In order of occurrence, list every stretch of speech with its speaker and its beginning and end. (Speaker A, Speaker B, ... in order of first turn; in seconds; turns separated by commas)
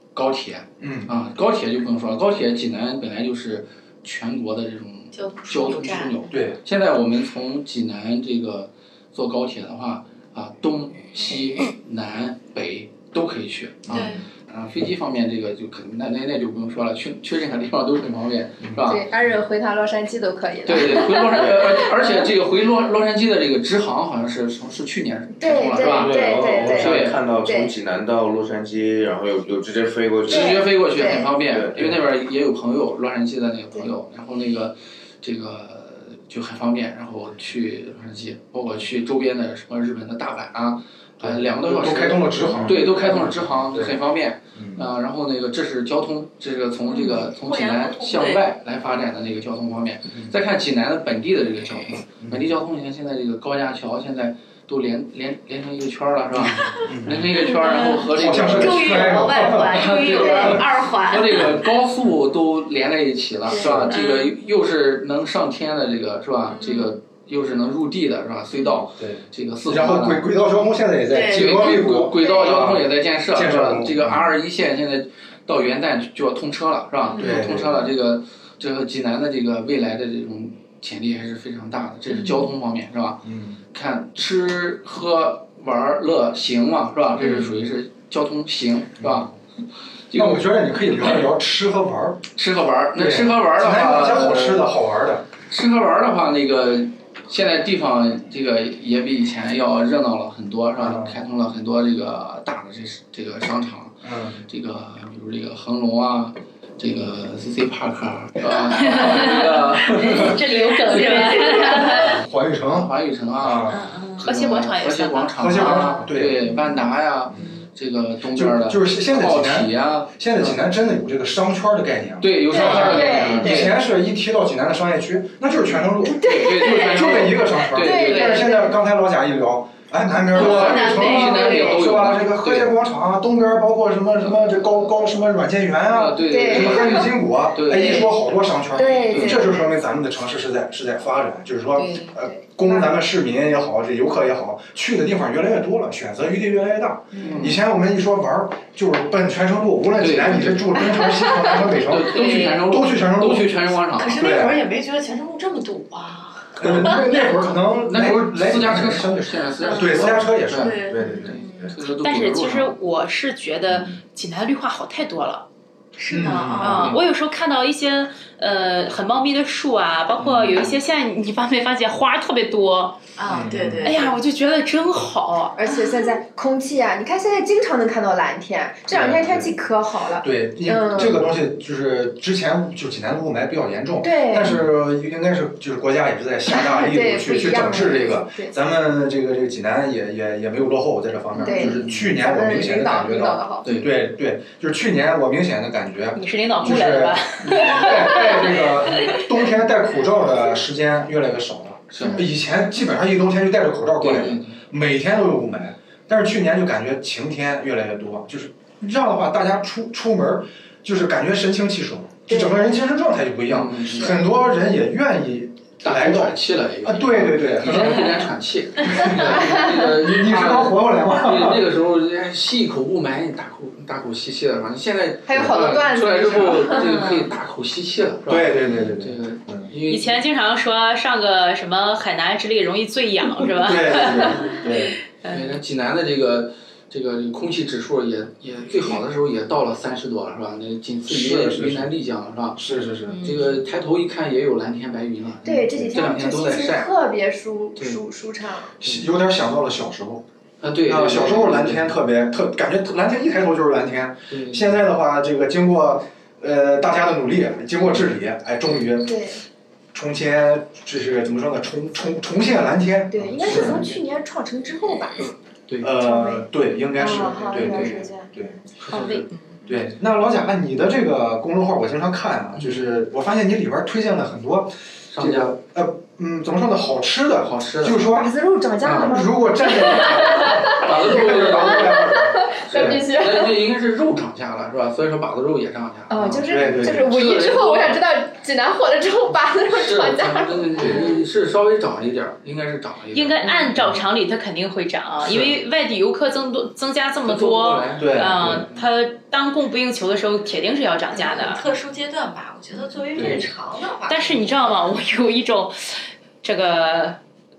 Speaker A: 0.1-19.1, Speaker B: 0.8-1.1, Speaker C: 5.1-6.3, Speaker B: 6.3-6.6, Speaker B: 13.9-14.1, Speaker C: 13.9-14.2, Speaker D: 18.9-22.3, Speaker A: 20.6-27.2, Speaker D: 25.3-27.7, Speaker E: 25.8-30.7, Speaker D: 30.3-31.3, Speaker A: 30.3-70.3, Speaker E: 31.5-31.8, Speaker B: 41.2-44.0, Speaker B: 44.5-44.8, Speaker C: 46.9-48.5, Speaker B: 50.1-50.3, Speaker B: 52.2-52.5, Speaker B: 56.4-57.4, Speaker C: 57.6-61.5, Speaker B: 58.1-60.6, Speaker B: 63.6-63.9, Speaker C: 63.9-64.3, Speaker C: 66.5-67.0, Speaker C: 68.6-68.8, Speaker B: 69.0-74.3, Speaker C: 71.1-72.5, Speaker A: 71.3-89.3, Speaker B: 77.1-77.9, Speaker B: 83.2-83.6, Speaker B: 87.2-87.5, Speaker B: 89.0-89.3, Speaker A: 90.1-90.5, Speaker B: 90.1-92.2, Speaker A: 92.3-94.7, Speaker B: 92.9-95.3, Speaker A: 95.5-120.6, Speaker B: 100.8-101.2, Speaker B: 104.0-104.4, Speaker C: 108.5-109.3, Speaker F: 108.8-112.2, Speaker B: 109.9-110.4, Speaker B: 111.9-113.9, Speaker F: 113.7-115.8, Speaker B: 115.3-116.5, Speaker B: 118.3-153.6, Speaker A: 122.2-123.8, Speaker D: 122.5-123.7, Speaker D: 126.0-128.8, Speaker A: 126.2-128.6, Speaker C: 130.3-132.0, Speaker A: 130.3-132.8, Speaker A: 134.2-134.5, Speaker A: 135.9-138.1, Speaker D: 136.3-137.1, Speaker D: 138.7-139.7, Speaker A: 139.1-139.5, Speaker D: 141.8-142.9, Speaker D: 147.2-147.5, Speaker A: 147.2-147.6, Speaker A: 150.0-151.0, Speaker D: 151.1-151.5, Speaker A: 151.7-154.2, Speaker C: 152.1-152.6, Speaker C: 153.9-157.3, Speaker B: 154.2-154.6, Speaker B: 156.6-161.7, Speaker A: 157.9-162.8, Speaker C: 159.6-161.7, Speaker F: 162.0-165.4, Speaker B: 163.7-164.0, Speaker C: 165.9-167.0, Speaker B: 166.1-166.9, Speaker F: 166.5-173.0, Speaker A: 166.7-167.0, Speaker B: 170.2-170.7, Speaker C: 173.2-174.2, Speaker B: 173.3-173.9, Speaker F: 173.8-175.8, Speaker D: 175.6-181.3, Speaker B: 178.9-179.6, Speaker B: 180.2-218.2, Speaker D: 184.0-184.6, Speaker D: 186.5-188.5, Speaker A: 191.3-192.1, Speaker D: 191.4-193.8, Speaker A: 193.6-193.9, Speaker F: 196.1-199.4, Speaker A: 197.4-197.9, Speaker A: 201.9-202.2, Speaker A: 204.0-204.6, Speaker D: 212.3-212.7, Speaker A: 213.5-214.2, Speaker A: 215.8-230.2, Speaker B: 218.8-221.6, Speaker D: 225.2-226.8, Speaker F: 226.7-227.3, Speaker B: 228.3-229.7, Speaker F: 229.8-235.5, Speaker B: 233.6-235.0, Speaker A: 235.3-242.6, Speaker B: 241.1-241.9, Speaker B: 242.6-243.2, Speaker F: 243.1-243.6, Speaker A: 243.2-246.9, Speaker D: 245.4-248.8, Speaker B: 248.8-250.2, Speaker A: 250.6-252.0, Speaker B: 250.8-259.2, Speaker A: 254.3-254.8, Speaker D: 259.0-259.4, Speaker B: 259.9-263.9, Speaker D: 263.1-265.3, Speaker A: 263.4-263.9, Speaker A: 265.7-265.9, Speaker B: 265.8-268.6, Speaker D: 265.9-268.3, Speaker A: 267.1-268.1, Speaker A: 268.8-269.2, Speaker F: 268.9-269.6, Speaker B: 269.7-283.0, Speaker A: 272.5-272.9, Speaker A: 275.1-275.6, Speaker A: 277.4-278.2, Speaker D: 278.1-283.6, Speaker A: 278.8-279.2, Speaker A: 280.2-282.1, Speaker A: 282.6-288.0, Speaker D: 286.1-291.2, Speaker B: 286.5-287.1, Speaker A: 289.6-294.0, Speaker B: 290.8-291.1, Speaker F: 293.1-301.6, Speaker B: 295.3-295.5, Speaker A: 297.2-298.8, Speaker B: 298.0-298.7, Speaker C: 301.1-304.7, Speaker B: 303.2-303.4, Speaker F: 304.1-307.2